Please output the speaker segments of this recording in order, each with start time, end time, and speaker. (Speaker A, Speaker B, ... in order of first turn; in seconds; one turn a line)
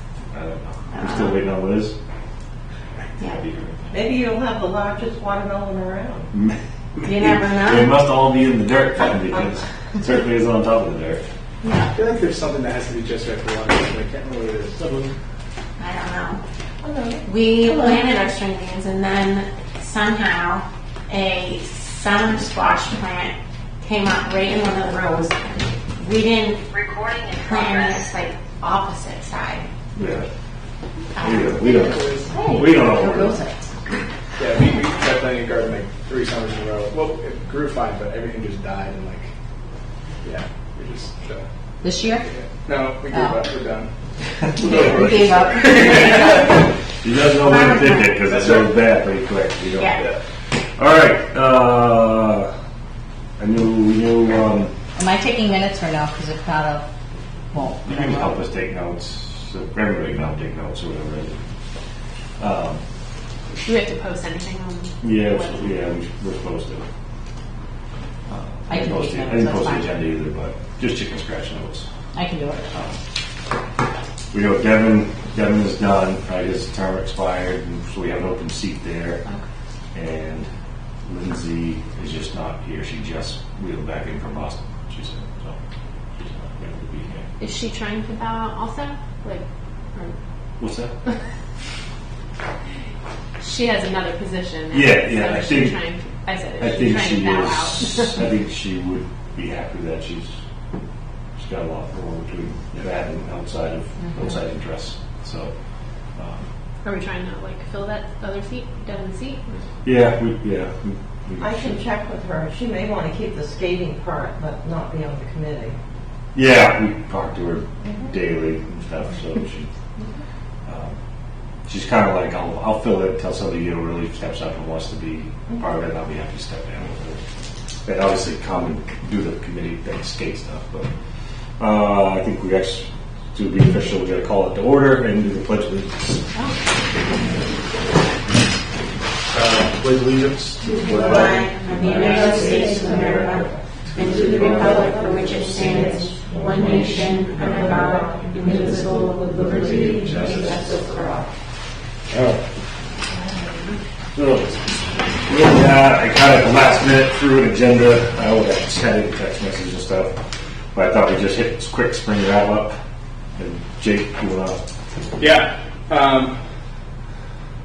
Speaker A: 0.3-1.9
Speaker B: 0.9-1.4
Speaker A: 3.2-4.1
Speaker C: 3.9-6.2
Speaker A: 6.2-11.2
Speaker B: 7.0-8.0
Speaker D: 11.9-14.8
Speaker A: 14.8-15.1
Speaker B: 15.8-16.4
Speaker C: 16.8-17.2
Speaker B: 17.2-26.6
Speaker B: 27.3-29.7
Speaker A: 29.9-30.3
Speaker B: 31.1-31.7
Speaker A: 31.2-33.4
Speaker D: 31.8-32.3
Speaker E: 32.2-33.7
Speaker D: 34.4-39.3
Speaker D: 40.2-41.5
Speaker E: 41.8-42.3
Speaker D: 42.2-43.9
Speaker E: 43.1-43.4
Speaker E: 44.5-46.6
Speaker D: 44.6-46.5
Speaker A: 44.6-45.3
Speaker A: 47.0-50.0
Speaker B: 47.4-48.2
Speaker D: 48.3-48.7
Speaker B: 49.7-50.0
Speaker A: 50.8-52.5
Speaker A: 53.4-54.7
Speaker E: 55.0-56.8
Speaker E: 57.5-58.4
Speaker A: 57.8-61.4
Speaker A: 62.4-62.8
Speaker F: 63.6-65.8
Speaker A: 65.0-66.8
Speaker A: 68.3-71.9
Speaker E: 68.7-69.9
Speaker E: 72.1-72.8
Speaker A: 74.3-79.2
Speaker A: 79.9-80.5
Speaker A: 81.0-85.6
Speaker A: 86.2-87.3
Speaker F: 87.4-90.2
Speaker A: 90.6-90.9
Speaker F: 93.4-98.2
Speaker A: 94.7-95.7
Speaker A: 96.6-100.4
Speaker A: 101.4-105.5
Speaker A: 106.2-106.4
Speaker F: 106.8-109.6
Speaker A: 109.8-111.8
Speaker C: 111.4-115.8
Speaker A: 116.3-119.7
Speaker C: 117.8-118.1
Speaker A: 120.7-121.0
Speaker A: 121.7-127.2
Speaker A: 127.8-130.9
Speaker A: 131.6-136.2
Speaker A: 139.3-145.5
Speaker B: 140.8-151.0
Speaker A: 147.4-147.8
Speaker A: 148.4-150.8
Speaker A: 152.1-152.4
Speaker A: 154.1-154.6
Speaker A: 155.2-160.2
Speaker A: 160.7-162.7
Speaker A: 163.3-164.6
Speaker D: 165.2-166.4